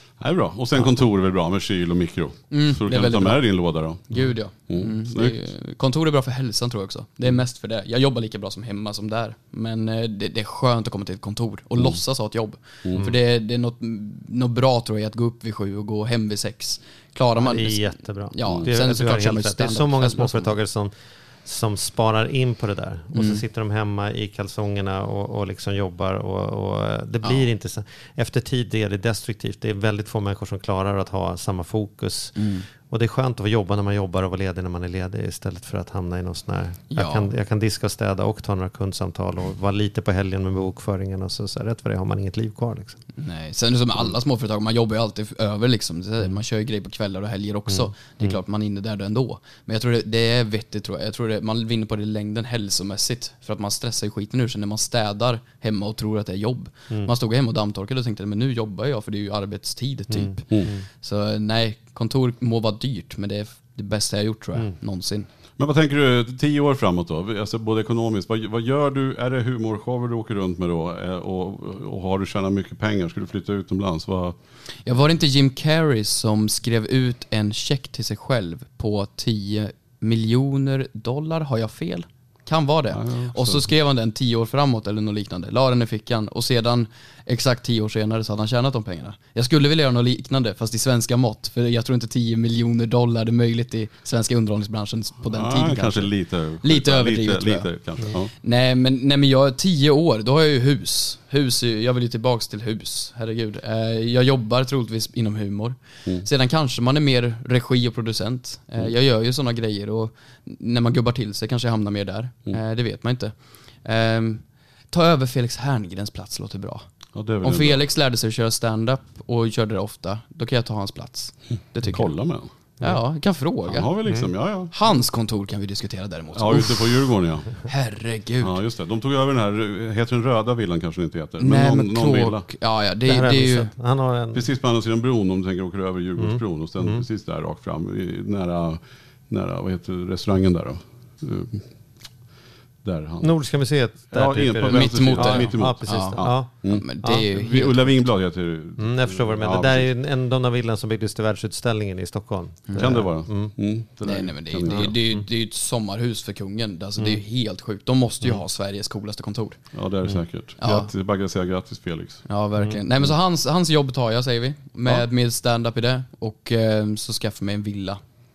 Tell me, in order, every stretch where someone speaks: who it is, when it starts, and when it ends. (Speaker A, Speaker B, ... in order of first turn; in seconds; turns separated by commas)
Speaker A: 0.2-5.4, Speaker B: 2.5-3.4, Speaker B: 4.1-20.5, Speaker C: 17.4-20.9, Speaker C: 21.4-43.0, Speaker B: 23.1-23.4, Speaker B: 32.4-32.6, Speaker B: 36.9-37.3, Speaker B: 43.2-65.3, Speaker C: 47.7-48.4, Speaker C: 60.1-60.9, Speaker A: 65.6-74.3, Speaker B: 74.8-96.1, Speaker A: 82.9-83.6, Speaker A: 95.2-98.3, Speaker B: 96.6-116.8, Speaker A: 117.1-117.8, Speaker B: 117.4-122.1, Speaker A: 121.8-122.5, Speaker B: 122.8-123.9, Speaker A: 123.7-124.7, Speaker C: 124.0-124.3, Speaker B: 124.7-127.1, Speaker A: 126.3-127.7, Speaker B: 127.6-128.6, Speaker A: 128.4-132.5, Speaker B: 131.4-133.7, Speaker C: 133.1-134.4, Speaker A: 134.3-141.7, Speaker C: 136.2-137.1, Speaker A: 142.8-143.3, Speaker C: 143.2-146.5, Speaker A: 144.1-149.9, Speaker B: 144.6-148.1, Speaker C: 148.8-153.5, Speaker B: 152.7-153.1, Speaker A: 152.8-154.9, Speaker B: 154.0-159.6, Speaker C: 154.7-155.2, Speaker A: 159.7-162.2, Speaker B: 160.6-160.9, Speaker B: 162.3-168.0